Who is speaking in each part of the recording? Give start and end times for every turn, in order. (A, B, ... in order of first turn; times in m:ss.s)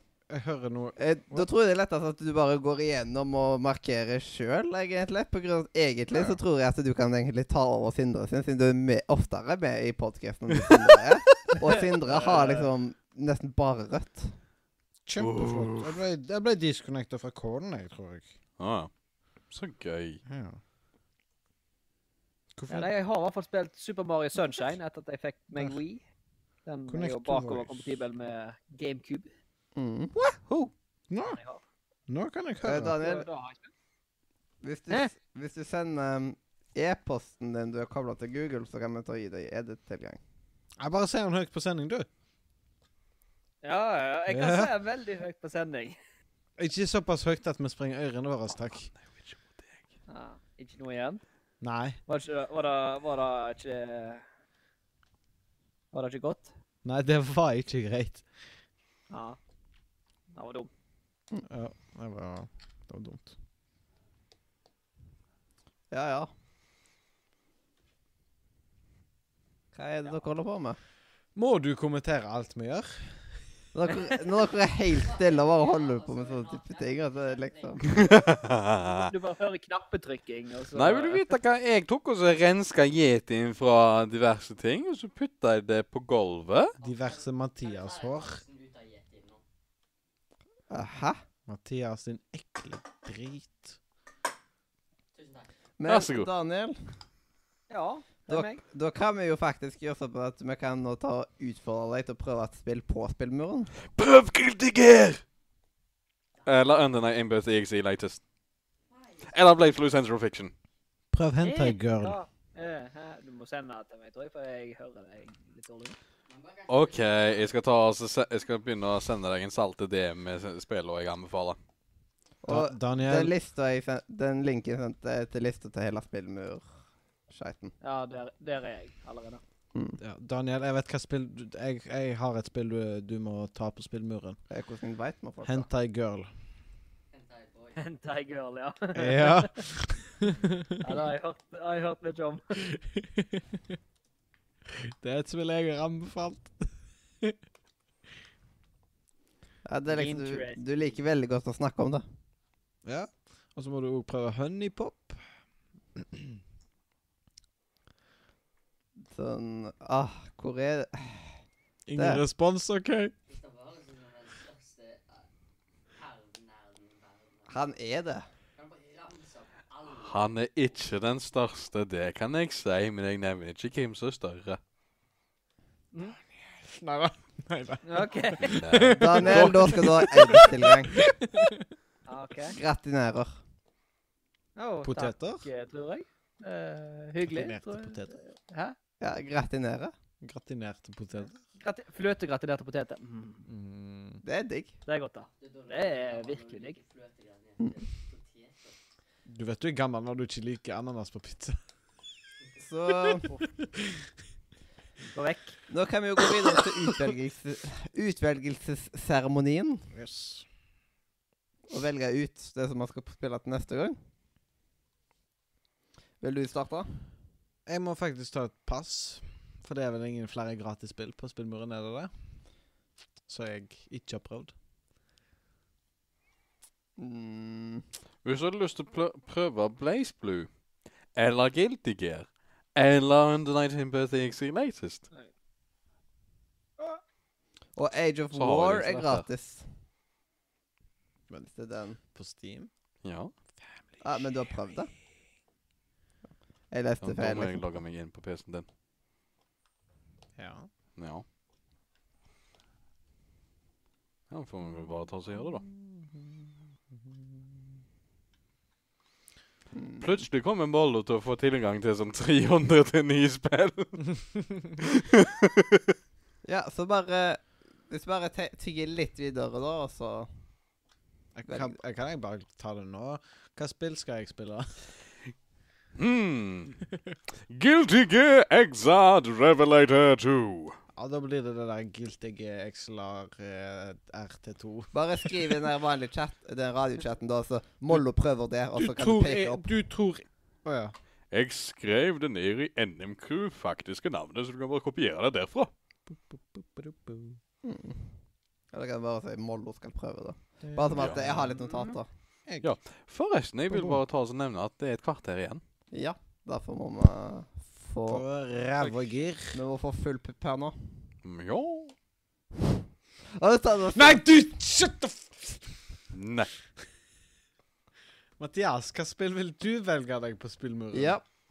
0:00.3-0:01.5 A
0:01.3-0:14.4 B
0:06.1-0:06.4 A
0:12.0-0:12.7 C
0:15.0-0:18.3 A
0:15.2-0:15.9 D
0:18.6-0:18.9 D
0:19.5-0:20.2 D
0:20.2-0:20.6 A
0:22.6-0:22.9 A
0:22.7-0:26.0 C
0:26.6-0:29.3 C
0:26.9-0:27.9 A
0:29.8-0:30.1 B
0:30.3-0:31.4 A
0:31.2-0:31.6 C
0:32.1-0:33.0 A
0:32.6-0:33.3 B
0:32.9-0:33.7 C
0:34.6-0:40.2 B
0:40.8-0:42.1 A
0:43.6-0:46.0 C
0:44.3-0:44.7 A
0:46.6-0:48.9 A
0:48.7-0:49.8 D
0:50.1-0:51.2 C
0:51.6-0:52.0 A
0:52.1-0:54.2 C
0:55.9-0:56.5 C
0:56.8-0:58.3 A
0:59.1-0:59.4 C
1:00.3-1:00.7 C
1:01.5-1:03.4 A
1:05.9-1:06.3 B
1:09.7-1:10.8 B
1:11.4-1:13.3 A
1:13.7-1:18.0 B
1:15.0-1:18.1 E
1:17.9-1:19.1 D
1:18.8-1:21.4 C
1:20.7-1:26.8 D
1:26.8-1:29.4 E
1:26.8-1:28.4 A
1:30.7-1:31.2 B
1:31.5-1:33.8 A
1:35.1-1:35.5 E
1:35.8-1:36.8 B
1:35.9-1:36.3 D
1:37.7-1:38.6 C
1:38.3-1:43.7 B
1:43.9-1:45.2 D
1:46.4-1:48.2 D
1:48.9-1:49.6 E
1:49.3-1:50.5 D
1:51.1-1:52.2 A
1:51.4-1:56.0 C
1:56.3-1:57.6 E
1:56.7-2:01.6 D
2:02.4-2:06.7 B
2:02.5-2:03.3 A
2:07.3-2:07.8 B
2:07.8-2:09.4 C
2:10.0-2:14.4 A
2:14.5-2:15.7 B
2:15.4-2:16.3 A
2:17.1-2:17.8 E
2:17.8-2:19.6 C
2:19.0-2:20.7 A
2:20.8-2:22.4 C
2:22.6-2:23.6 A
2:24.9-2:27.4 A
2:29.6-2:32.0 B
2:29.9-2:30.6 C
2:32.8-2:35.2 A
2:36.0-2:36.2 A
2:39.0-2:41.4 B
2:41.9-2:43.1 A
2:42.0-2:42.2 B
2:43.3-2:45.3 E
2:45.9-2:47.6 E
2:47.5-2:48.3 B
2:48.6-2:50.2 E
2:50.0-2:54.6 D
2:56.3-3:01.6 A
2:57.8-2:58.7 C
2:58.5-2:59.5 D
2:58.9-3:01.0 B
3:02.1-3:02.6 C
3:02.5-3:03.4 B
3:04.6-3:08.8 C
3:04.8-3:05.5 A
3:07.2-3:08.2 A
3:09.0-3:09.9 B
3:10.2-3:11.4 A
3:11.6-3:13.5 C
3:13.5-3:14.2 A
3:14.2-3:14.8 B
3:14.9-3:16.8 C
3:15.4-3:18.8 E
3:19.3-3:21.6 A
3:22.6-3:23.4 B
3:25.1-3:25.6 C
3:25.7-3:29.9 B
3:29.9-3:30.5 A
3:31.7-3:34.0 B
3:36.2-3:37.0 B
3:37.7-3:42.1 A
3:43.3-3:44.5 A
3:47.0-3:47.8 B
3:48.2-3:50.5 D
3:51.1-3:55.1 D
3:57.8-3:59.7 B
3:58.3-3:59.3 D
4:01.3-4:02.0 B
4:02.1-4:02.7 A
4:03.0-4:03.3 D
4:04.0-4:04.9 B
4:06.7-4:07.6 B
4:07.0-4:08.6 D
4:10.4-4:10.7 A
4:11.0-4:11.2 D
4:14.3-4:15.6 D
4:15.6-4:16.3 A
4:19.8-4:20.0 B
4:20.0-4:25.8 D
4:26.4-4:30.3 B
4:31.4-4:34.9 A
4:31.5-4:31.7 B
4:36.0-4:36.8 D
4:37.5-4:40.8 D
4:41.0-4:45.6 A
4:44.9-4:49.7 B
4:48.8-4:51.0 A
4:51.3-4:55.7 D
4:56.1-4:57.4 A
4:57.6-4:58.1 B
4:58.7-5:02.1 B
5:00.6-5:02.7 A
5:01.0-5:01.2 D
5:02.6-5:05.6 D
5:03.7-5:04.0 A
5:05.9-5:08.2 B
5:08.1-5:09.6 A
5:09.5-5:10.8 B
5:11.2-5:11.9 D
5:13.4-5:14.2 B
5:13.9-5:15.8 A
5:16.1-5:16.5 D
5:18.4-5:21.2 A
5:20.9-5:21.2 B